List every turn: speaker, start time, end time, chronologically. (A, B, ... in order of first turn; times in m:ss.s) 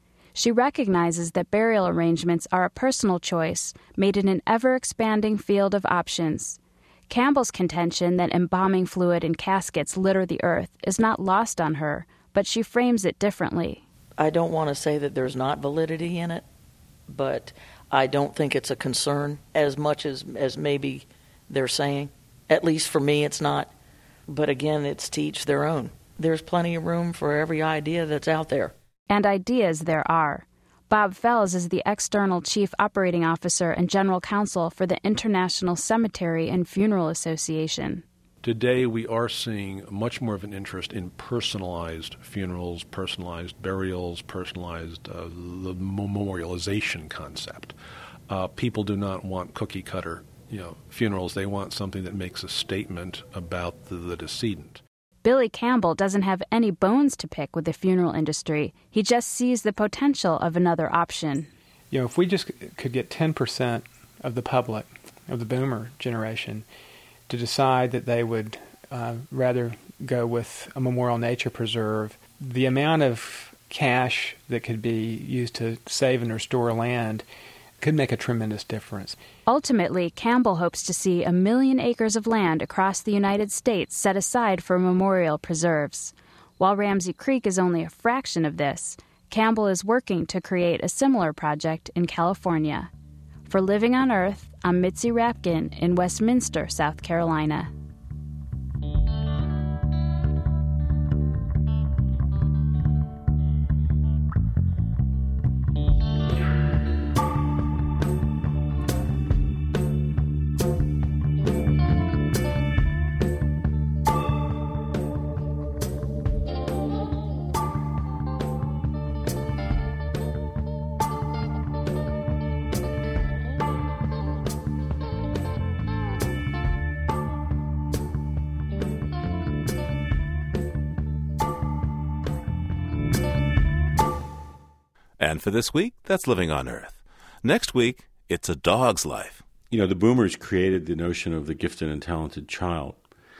0:00.3-0:06.6 A
0:07.1-0:13.8 A
0:14.2-0:16.4 B
0:17.1-0:23.7 B
0:24.3-0:28.7 B
0:29.1-0:38.0 A
0:38.4-0:47.8 C
0:48.3-0:54.8 C
0:55.2-1:01.5 A
1:01.9-1:06.6 D
1:07.3-1:17.2 D
1:17.8-1:19.2 D
1:19.4-1:32.9 A
1:33.5-1:37.7 A
2:15.2-2:19.4 E
2:19.7-2:23.0 F